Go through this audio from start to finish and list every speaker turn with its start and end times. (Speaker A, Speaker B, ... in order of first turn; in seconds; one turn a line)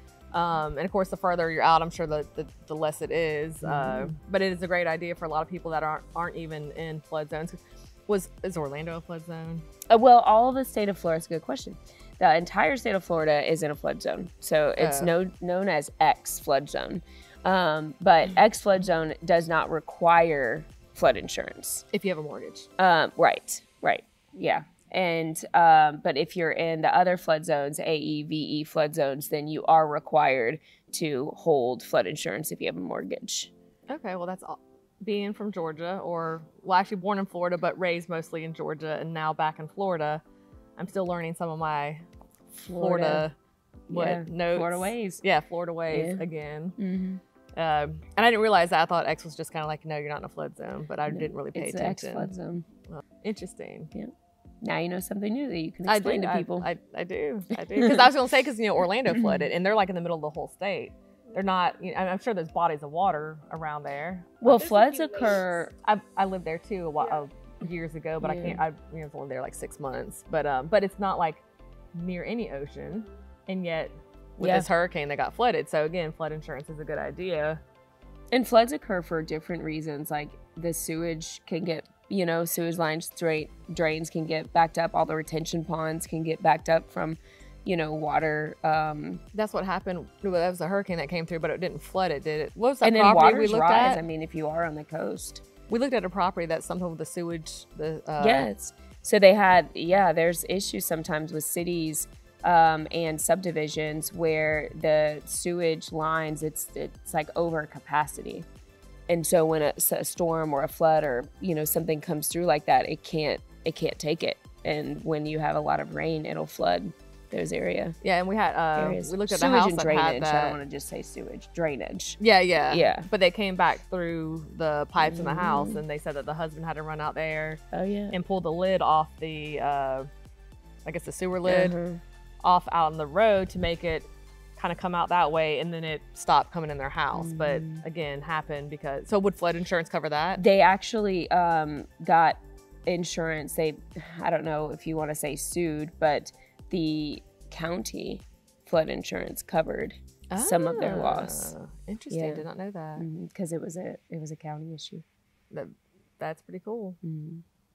Speaker A: 0.3-9.7
Speaker B: 3.6-4.1
Speaker B: 9.9-21.9
Speaker A: 14.8-15.1
Speaker A: 21.9-22.7
Speaker B: 22.8-33.5
Speaker A: 33.9-40.2
Speaker A: 40.8-42.0
Speaker B: 42.6-43.3
Speaker A: 42.7-43.3
Speaker B: 43.9-45.2
Speaker A: 43.9-46.8
Speaker B: 45.9-46.2
Speaker B: 46.8-47.2
Speaker A: 47.6-52.3
Speaker B: 51.1-52.6
Speaker A: 52.9-53.9
Speaker B: 54.6-56.7
Speaker A: 55.9-64.6
Speaker B: 64.4-65.7
Speaker A: 65.8-71.4
Speaker B: 68.2-68.6
Speaker A: 72.0-77.6
Speaker B: 74.4-74.7
Speaker B: 78.3-89.2
Speaker A: 89.3-94.0
Speaker B: 92.8-95.4
Speaker A: 95.7-98.5
Speaker B: 98.2-108.5
Speaker B: 109.1-118.0
Speaker A: 118.0-120.6
Speaker B: 118.8-123.1
Speaker A: 122.2-130.1
Speaker B: 125.0-125.8
Speaker B: 127.7-128.2
Speaker A: 130.8-131.8
Speaker B: 131.4-132.0
Speaker A: 132.4-140.4
Speaker B: 137.1-137.8
Speaker B: 140.4-151.5
Speaker A: 150.3-153.1
Speaker B: 152.1-152.5
Speaker B: 153.0-155.0
Speaker A: 155.5-157.0
Speaker B: 157.0-157.4